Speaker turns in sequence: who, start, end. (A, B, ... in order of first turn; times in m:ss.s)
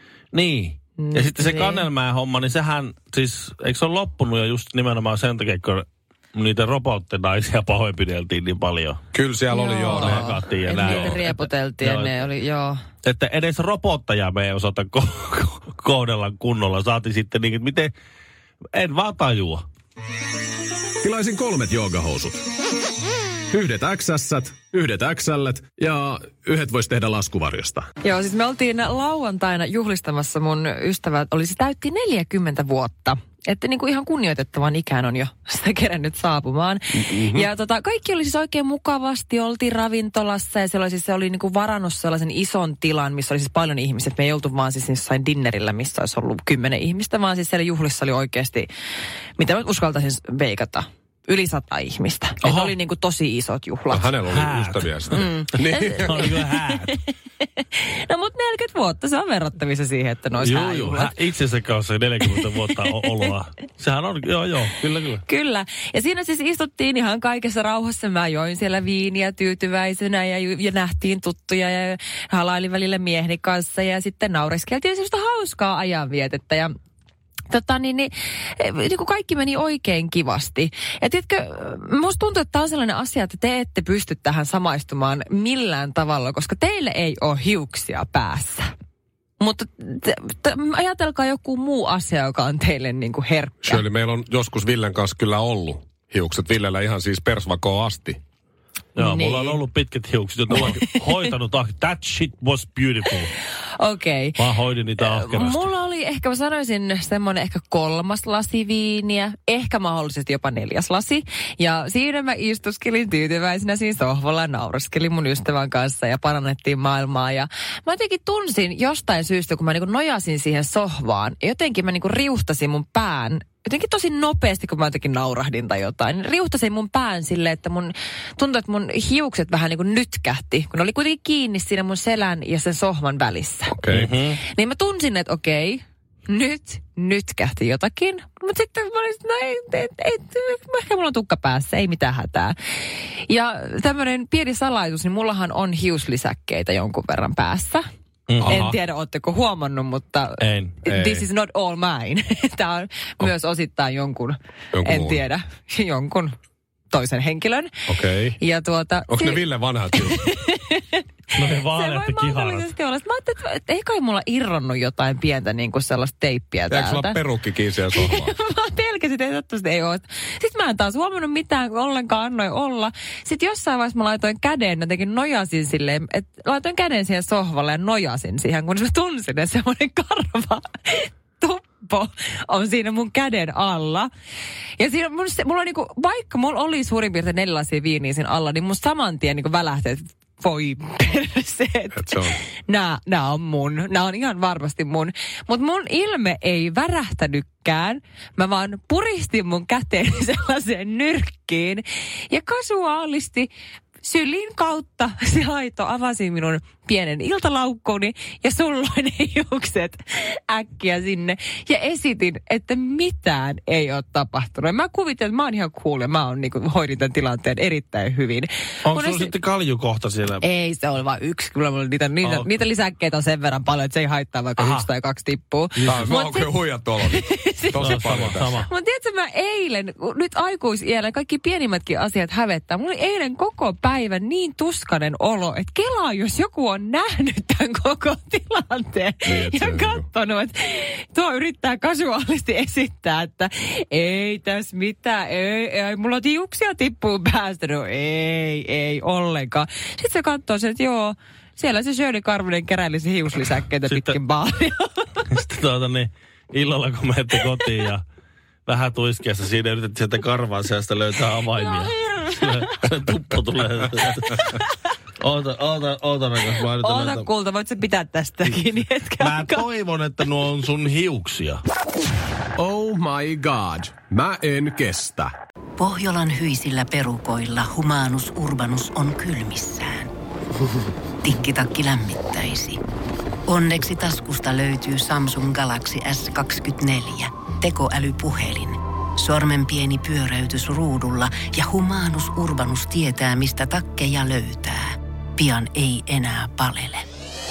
0:00.3-0:09.0 A
0:01.0-0:01.8 B
0:09.1-0:11.2 C
0:09.5-0:12.8 B
0:09.8-0:12.1 A
0:13.0-0:17.9 A
0:18.7-0:19.6 A
0:21.0-0:22.4 D
0:23.5-0:27.9 D
0:28.0-0:48.7 B
0:36.9-0:37.5 C
0:49.4-0:54.2 B
0:52.4-0:52.7 A
0:53.9-0:56.3 C
0:54.3-0:55.2 A
0:55.1-1:01.1 B
0:55.7-0:57.0 A
1:00.4-1:05.2 A
1:05.2-1:16.7 B
1:17.5-1:28.7 B
1:29.4-1:33.8 B
1:33.6-1:38.2 C
1:39.0-1:43.3 A
1:39.0-1:39.6 B
1:40.6-1:40.8 B
1:43.8-1:44.4 B
1:44.4-1:45.7 A
1:45.0-2:13.8 B
2:13.7-2:14.1 C
2:13.9-2:14.4 A
2:14.4-2:22.5 B
2:23.3-2:27.8 B
2:28.3-2:28.6 A
2:28.4-2:28.8 C
2:28.4-2:36.4 B
2:30.4-2:30.8 A
2:30.8-2:31.2 C
2:34.7-2:35.2 C
2:36.9-2:37.7 B
2:37.9-2:38.4 C
2:38.4-2:47.2 B
2:39.1-2:40.2 C
2:41.3-2:42.7 A
2:46.7-2:48.3 C
2:47.9-3:04.1 B
3:04.8-3:39.3 B
3:11.9-3:12.4 C
3:38.8-3:40.4 A
3:40.4-4:15.2 B
3:42.2-3:42.5 A
3:44.6-3:44.9 A
3:45.8-3:46.1 A
3:45.8-3:48.6 C
3:47.8-3:48.7 A
3:59.2-4:00.0 C
4:13.9-4:14.2 A
4:15.3-4:18.0 A
4:18.6-4:24.6 A
4:21.5-4:22.6 B
4:25.2-4:27.3 A
4:26.8-4:29.6 B
4:29.2-4:31.6 A
4:32.6-4:35.3 D
4:35.8-4:40.1 E
4:41.2-4:42.8 E
4:43.5-4:57.0 E